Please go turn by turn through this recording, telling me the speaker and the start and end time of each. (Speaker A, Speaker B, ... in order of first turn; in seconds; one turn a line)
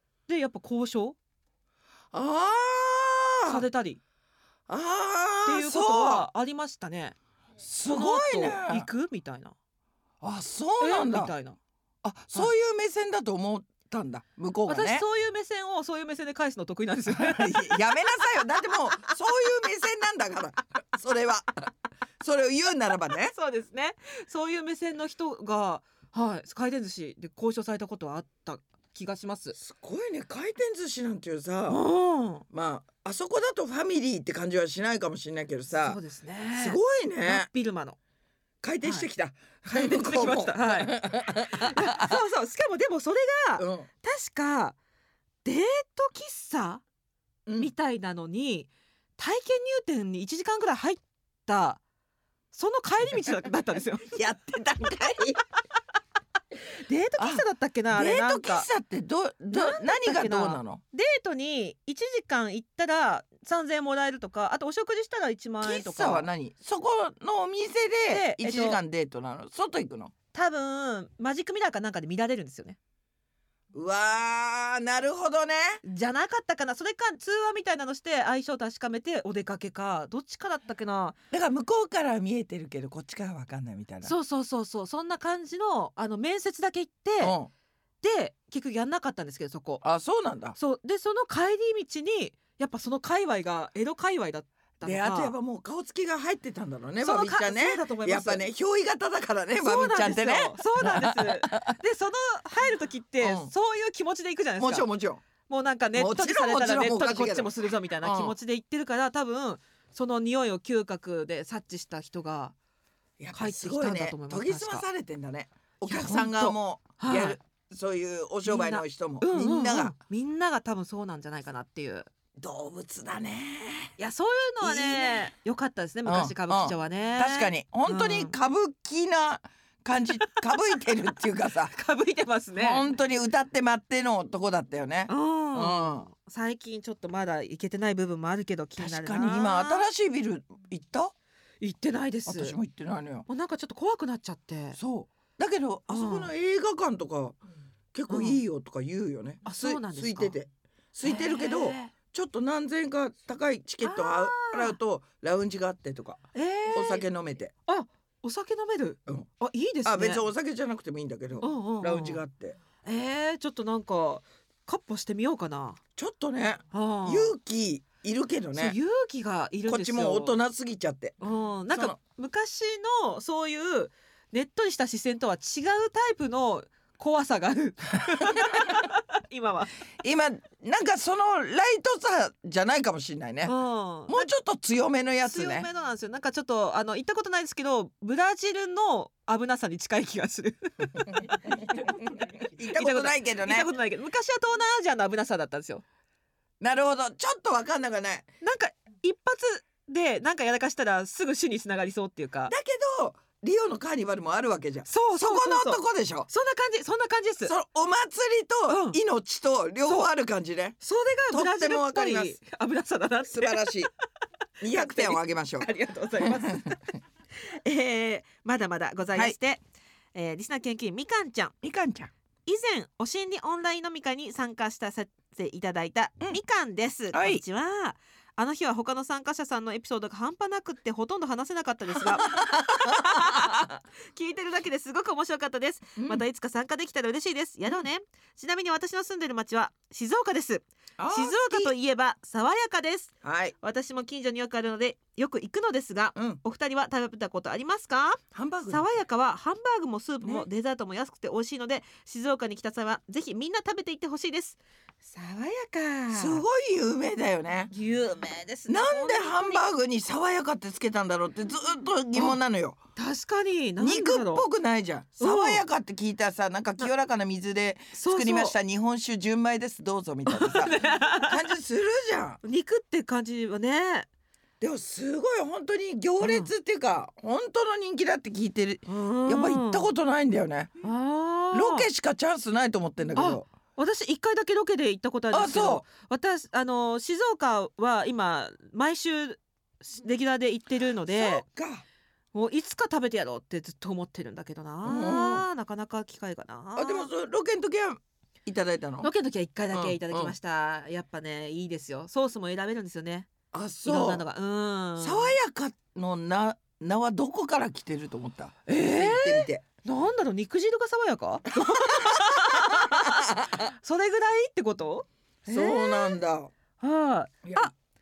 Speaker A: 0.3-1.1
Speaker B: 2.1-3.6
Speaker A: 3.5-4.0
Speaker B: 4.7-6.3
Speaker A: 5.5-7.2
Speaker B: 7.6-8.9
Speaker A: 7.9-9.5
Speaker B: 10.2-11.3
Speaker A: 10.8-11.6
Speaker B: 12.0-15.1
Speaker A: 14.7-17.8
Speaker B: 17.1-23.3
Speaker A: 23.3-29.6
Speaker B: 29.6-31.8
Speaker A: 31.7-32.4
Speaker B: 32.5-36.0
Speaker A: 35.9-38.0
Speaker B: 36.5-37.5
Speaker B: 38.6-42.1
Speaker A: 39.7-41.0
Speaker A: 41.5-44.8
Speaker B: 43.6-43.9
Speaker A: 45.5-46.8
Speaker B: 47.5-47.7
Speaker A: 47.6-51.8
Speaker A: 52.5-54.1
Speaker B: 54.1-55.4
Speaker A: 56.8-58.7
Speaker B: 57.2-60.8
Speaker A: 59.5-66.2
Speaker B: 65.6-70.1
Speaker A: 68.1-68.8
Speaker A: 70.3-72.8
Speaker B: 73.7-75.8
Speaker A: 75.8-81.2
Speaker B: 81.3-84.1
Speaker A: 84.0-87.4
Speaker B: 87.2-87.5
Speaker A: 88.0-89.8
Speaker B: 89.8-90.6
Speaker A: 90.6-95.3
Speaker B: 94.8-101.8
Speaker A: 97.0-98.4
Speaker A: 99.6-104.9
Speaker B: 103.2-103.5
Speaker B: 104.6-105.2
Speaker A: 105.5-112.5
Speaker B: 105.9-108.3
Speaker B: 113.2-119.9
Speaker A: 113.3-114.8
Speaker A: 115.8-117.4
Speaker A: 118.4-122.1
Speaker B: 122.4-123.9
Speaker A: 124.0-128.3
Speaker B: 124.6-125.3
Speaker B: 126.1-131.7
Speaker A: 131.7-132.8
Speaker B: 132.6-136.1
Speaker A: 135.1-139.9
Speaker B: 138.8-141.1
Speaker A: 141.6-142.6
Speaker B: 142.3-143.3
Speaker A: 143.3-144.8
Speaker B: 144.8-147.4
Speaker A: 145.9-146.3
Speaker B: 147.9-157.5
Speaker A: 148.1-148.4
Speaker A: 149.4-150.4
Speaker A: 151.0-151.9
Speaker A: 153.8-154.8
Speaker A: 156.3-157.1
Speaker A: 157.7-160.2
Speaker B: 159.8-162.6
Speaker A: 161.4-162.2
Speaker A: 162.8-165.8
Speaker B: 166.0-168.8
Speaker A: 166.7-167.3
Speaker A: 168.6-170.4
Speaker B: 169.7-171.2
Speaker A: 171.2-179.7
Speaker B: 171.7-172.0
Speaker B: 178.4-178.6
Speaker B: 180.0-183.5
Speaker A: 183.4-184.2
Speaker B: 184.1-185.7
Speaker A: 185.2-192.0
Speaker B: 191.8-193.7
Speaker A: 192.7-195.8
Speaker B: 196.6-198.3
Speaker A: 198.4-202.5
Speaker B: 202.5-206.3
Speaker A: 204.9-207.5
Speaker B: 207.4-210.8
Speaker A: 208.7-209.0
Speaker A: 210.8-213.8
Speaker B: 211.3-212.4
Speaker B: 213.3-213.9
Speaker B: 214.6-215.7
Speaker A: 214.7-216.8
Speaker B: 216.2-216.8
Speaker A: 217.4-219.6
Speaker A: 220.1-221.5
Speaker B: 221.6-222.1
Speaker A: 222.4-256.4
Speaker B: 227.1-227.4
Speaker B: 232.0-233.7
Speaker B: 236.0-236.2
Speaker B: 241.0-241.7
Speaker B: 243.2-243.6
Speaker B: 246.1-246.4
Speaker B: 248.3-248.8
Speaker B: 250.2-250.5
Speaker B: 256.1-257.7
Speaker A: 257.7-259.6
Speaker B: 258.7-262.8
Speaker A: 262.9-264.4
Speaker B: 263.8-272.4
Speaker A: 265.2-265.6
Speaker A: 267.9-268.5
Speaker A: 270.3-271.4
Speaker A: 272.4-274.1
Speaker B: 274.6-280.7
Speaker A: 276.2-276.5
Speaker A: 278.9-279.9
Speaker A: 280.8-281.9
Speaker B: 281.5-283.4
Speaker A: 283.1-291.4
Speaker B: 285.3-285.8
Speaker B: 291.1-291.8
Speaker A: 292.3-297.1
Speaker B: 294.8-295.4
Speaker B: 296.8-299.1
Speaker A: 299.0-303.3
Speaker B: 299.7-300.4
Speaker B: 303.5-304.2
Speaker A: 303.9-305.4
Speaker B: 305.0-309.6
Speaker A: 308.7-316.1
Speaker B: 311.6-313.6
Speaker B: 315.4-316.5
Speaker A: 316.8-317.7
Speaker B: 317.4-317.7